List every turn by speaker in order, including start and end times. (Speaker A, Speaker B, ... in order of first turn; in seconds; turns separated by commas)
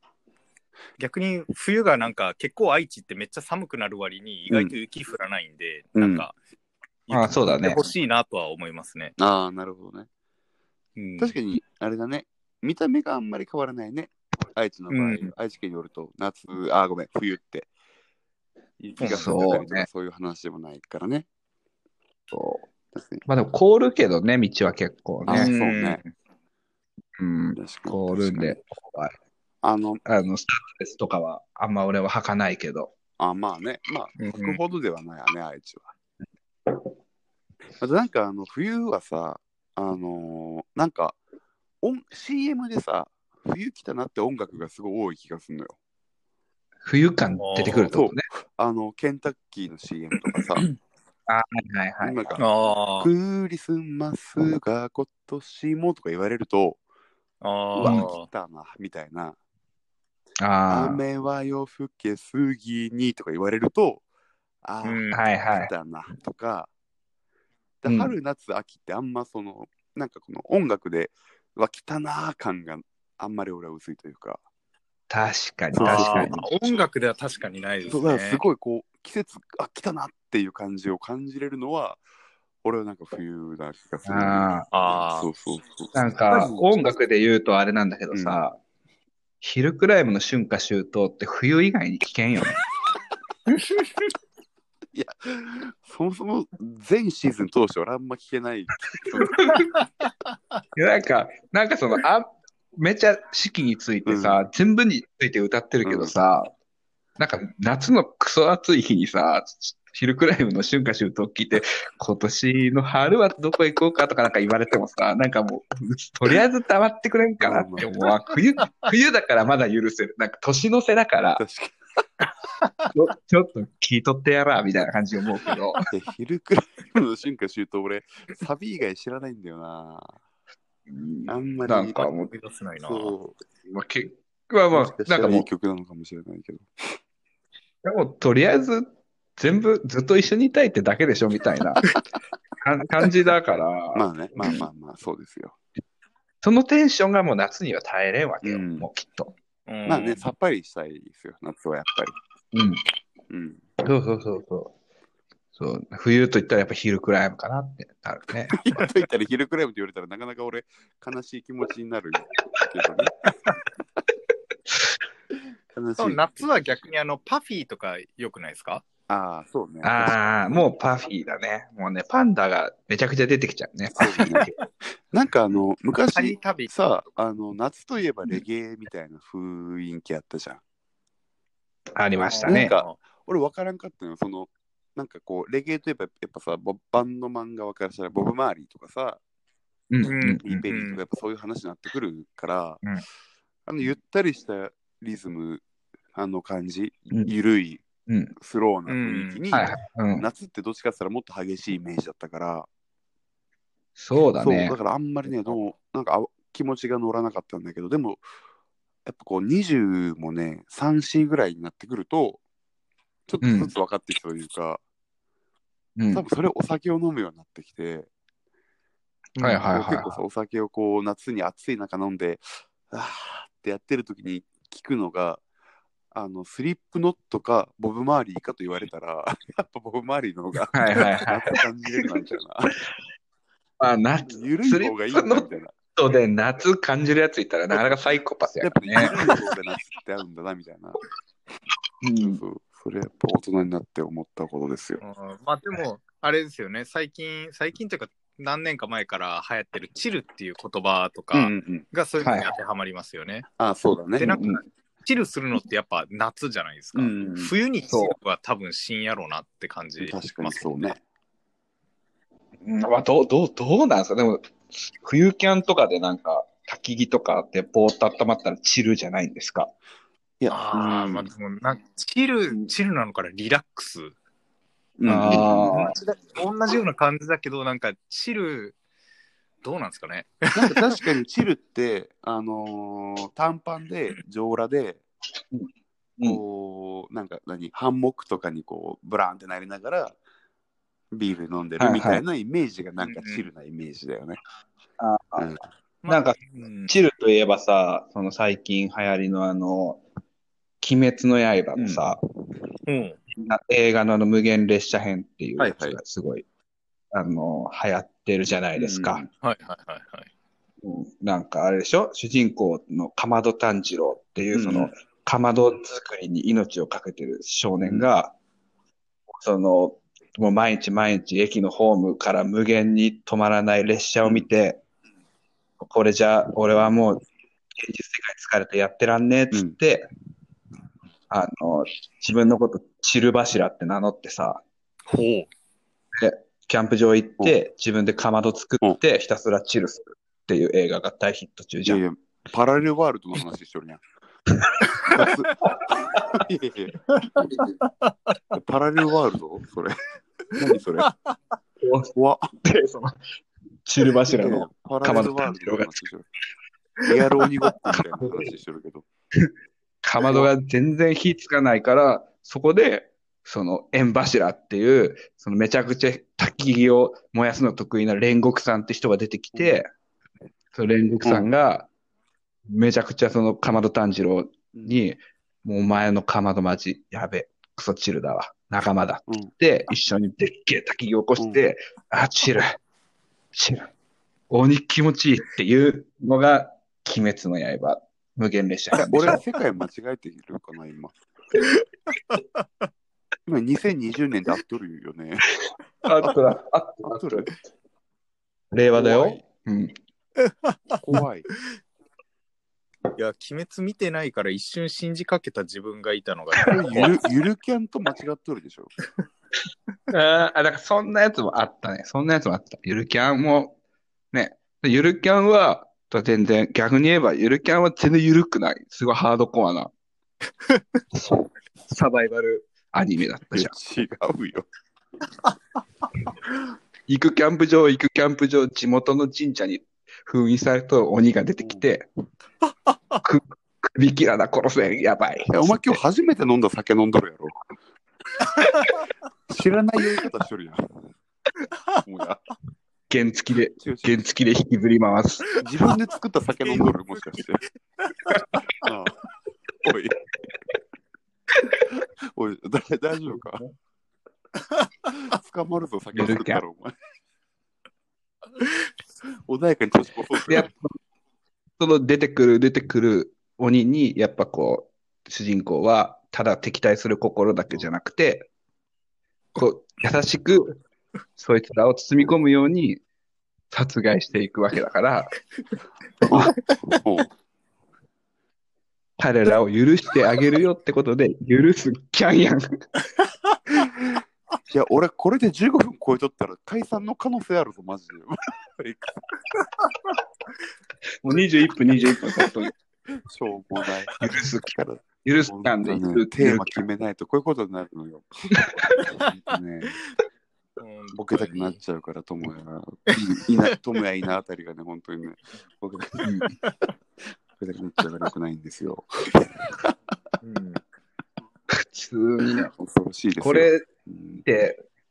Speaker A: 1.0-6.3, Speaker B: 4.5-4.7, Speaker B: 6.0-6.3, Speaker A: 7.1-9.1, Speaker C: 7.1-7.8, Speaker B: 9.2-10.1, Speaker A: 11.0-11.3, Speaker B: 11.2-17.7, Speaker A: 14.9-15.3, Speaker B: 18.8-21.2, Speaker A: 19.0-19.3, Speaker C: 19.1-19.9, Speaker C: 22.3-22.6, Speaker B: 22.9-23.2, Speaker C: 23.2-25.5, Speaker B: 25.2-26.0, Speaker A: 25.3-26.1, Speaker C: 27.2-29.1, Speaker B: 27.5-28.6, Speaker B: 29.6-30.0, Speaker C: 30.0-32.9, Speaker B: 33.2-35.9, Speaker A: 34.2-34.6, Speaker B: 37.8-41.2, Speaker B: 41.8-45.7, Speaker C: 46.8-48.3, Speaker A: 47.4-47.9, Speaker B: 47.9-50.7, Speaker C: 51.3-52.4, Speaker B: 52.0-52.5, Speaker A: 52.4-53.1, Speaker B: 53.0-56.8, Speaker A: 57.4-58.3, Speaker B: 57.7-59.4, Speaker C: 60.4-61.0, Speaker B: 60.7-64.0, Speaker B: 64.6-66.7, Speaker A: 64.8-65.2, Speaker C: 65.1-65.7, Speaker B: 67.8-74.4, Speaker C: 67.8-68.1, Speaker C: 75.1-76.4, Speaker B: 75.7-76.3, Speaker A: 75.8-78.4, Speaker B: 77.9-82.0, Speaker B: 82.6-86.7, Speaker C: 84.0-84.7, Speaker A: 84.7-85.3, Speaker C: 85.9-88.5, Speaker B: 88.1-88.4, Speaker C: 89.4-92.6, Speaker B: 94.9-99.6, Speaker C: 99.2-99.7, Speaker A: 99.5-100.1, Speaker C: 100.7-106.5, Speaker B: 104.0-104.5, Speaker B: 105.8-106.1, Speaker C: 107.2-121.4, Speaker B: 117.4-117.9, Speaker B: 121.3-121.8, Speaker A: 122.6-122.9, Speaker C: 122.9-125.8, Speaker B: 125.9-130.2, Speaker C: 130.9-132.3, Speaker B: 131.3-132.1, Speaker A: 131.8-133.1, Speaker B: 132.8-133.4, Speaker C: 133.7-135.5, Speaker B: 134.7-137.0, Speaker C: 137.8-141.8, Speaker C: 142.6-144.6, Speaker B: 143.9-145.6, Speaker C: 146.4-149.3, Speaker B: 148.4-148.9, Speaker A: 149.7-150.3, Speaker B: 149.8-152.2, Speaker C: 152.5-152.8, Speaker B: 153.3-153.6, Speaker C: 153.8-154.7, Speaker C: 155.5-158.6, Speaker B: 158.5-163.1, Speaker B: 165.7-166.5, Speaker A: 166.0-168.8, Speaker B: 169.1-170.2, Speaker C: 169.8-174.5, Speaker B: 174.0-174.5, Speaker B: 175.1-180.6, Speaker A: 176.1-176.7, Speaker C: 181.9-182.7, Speaker A: 182.3-182.9, Speaker B: 182.4-189.2, Speaker C: 189.9-190.6, Speaker A: 190.0-191.0, Speaker B: 190.4-192.8, Speaker B: 193.7-195.6, Speaker B: 196.1-197.8, Speaker C: 198.1-198.3, Speaker B: 198.4-202.7, Speaker A: 198.9-199.4, Speaker C: 199.5-200.2, Speaker C: 204.0-204.8, Speaker B: 204.4-208.2, Speaker B: 209.1-212.4, Speaker B: 213.3-214.8, Speaker C: 213.4-213.7, Speaker C: 216.0-216.2, Speaker B: 216.1-218.1, Speaker A: 219.4-219.7, Speaker C: 219.4-220.1, Speaker B: 219.7-225.4, Speaker B: 226.1-232.8, Speaker C: 230.7-231.6, Speaker C: 233.8-239.2, Speaker B: 234.3-235.7, Speaker B: 238.6-241.0, Speaker C: 242.0-242.4, Speaker B: 242.2-245.0, Speaker A: 245.0-253.5, Speaker B: 251.3-251.9, Speaker C: 252.2-252.5, Speaker B: 253.6-254.4, Speaker A: 254.2-260.9, Speaker C: 254.2-254.6, Speaker B: 256.9-257.5, Speaker C: 257.9-258.1, Speaker B: 260.0-261.0, Speaker C: 262.6-269.7, Speaker B: 270.4-271.3, Speaker A: 270.5-274.1, Speaker B: 275.0-275.9, Speaker C: 275.1-275.9, Speaker A: 275.2-278.7, Speaker A: 279.6-281.0, Speaker B: 280.5-285.0, Speaker C: 285.5-286.4, Speaker B: 286.2-290.2, Speaker B: 291.1-294.4, Speaker C: 291.8-292.2, Speaker A: 293.0-293.5, Speaker C: 295.0-295.5, Speaker B: 295.4-295.6, Speaker A: 296.0-296.9, Speaker C: 296.1-300.0, Speaker C: 300.8-302.2, Speaker B: 301.7-302.6, Speaker A: 302.9-303.2, Speaker C: 303.3-306.4, Speaker B: 305.6-306.0, Speaker C: 307.1-309.2, Speaker B: 308.8-309.3, Speaker A: 309.4-310.3, Speaker C: 310.8-318.3, Speaker B: 314.5-314.9, Speaker B: 317.8-318.1, Speaker C: 319.3-324.8, Speaker C: 325.8-327.2, Speaker C: 327.8-330.1, Speaker B: 329.5-329.8, Speaker C: 331.3-334.6, Speaker A: 335.1-335.5, Speaker C: 336.1-342.0, Speaker B: 341.8-344.0, Speaker C: 344.6-345.2, Speaker B: 345.0-347.0, Speaker A: 347.1-348.3, Speaker B: 348.5-349.9, Speaker B: 350.5-351.1, Speaker A: 351.0-351.4, Speaker C: 351.8-353.2, Speaker B: 352.1-352.5, Speaker C: 353.9-355.9, Speaker B: 354.3-356.3, Speaker B: 357.0-359.1, Speaker C: 357.9-358.5, Speaker C: 360.0-369.9, Speaker B: 360.2-360.5, Speaker B: 369.5-369.8, Speaker C: 370.7-371.9, Speaker B: 371.2-371.5, Speaker C: 372.7-382.8, Speaker B: 374.7-375.0, Speaker B: 379.3-379.5, Speaker B: 381.4-381.7, Speaker C: 383.5-383.9, Speaker C: 384.5-389.4, Speaker B: 388.9-391.2, Speaker A: 391.6-392.6, Speaker B: 393.5-395.5, Speaker C: 396.0-397.5, Speaker B: 397.0-397.5, Speaker C: 398.7-399.9, Speaker B: 398.9-399.4, Speaker A: 400.4-400.8, Speaker B: 401.0-401.5, Speaker A: 403.1-407.2, Speaker B: 406.7-408.9, Speaker C: 410.1-413.8, Speaker C: 414.3-419.9, Speaker A: 420.7-421.0, Speaker C: 421.9-423.7, Speaker B: 423.5-424.7, Speaker C: 427.1-432.1, Speaker B: 431.6-431.9, Speaker C: 433.2-436.0, Speaker B: 435.5-437.6, Speaker B: 439.5-441.1, Speaker B: 441.9-442.4, Speaker C: 443.1-445.4, Speaker B: 443.8-444.2, Speaker B: 445.6-447.6, Speaker A: 448.2-448.6, Speaker B: 448.8-449.2, Speaker B: 449.8-450.2, Speaker B: 451.9-453.6, Speaker B: 455.2-456.9, Speaker C: 456.1-456.6, Speaker B: 459.5-460.7, Speaker C: 460.5-460.9, Speaker C: 461.8-468.5, Speaker C: 469.6-470.7, Speaker C: 471.4-473.0, Speaker C: 473.7-475.3, Speaker B: 476.2-477.3, Speaker A: 476.4-476.7, Speaker C: 479.2-482.8, Speaker B: 483.8-489.3, Speaker C: 491.2-492.7, Speaker B: 493.2-498.6, Speaker C: 494.2-494.7, Speaker C: 495.2-496.8, Speaker B: 499.1-500.0, Speaker A: 500.8-501.8, Speaker B: 501.1-506.3, Speaker A: 503.1-503.4, Speaker C: 506.2-506.5, Speaker A: 506.6-506.9, Speaker B: 507.6-509.9, Speaker A: 510.4-510.8, Speaker C: 511.7-512.7, Speaker B: 512.8-514.5, Speaker C: 513.4-513.8, Speaker C: 514.4-514.8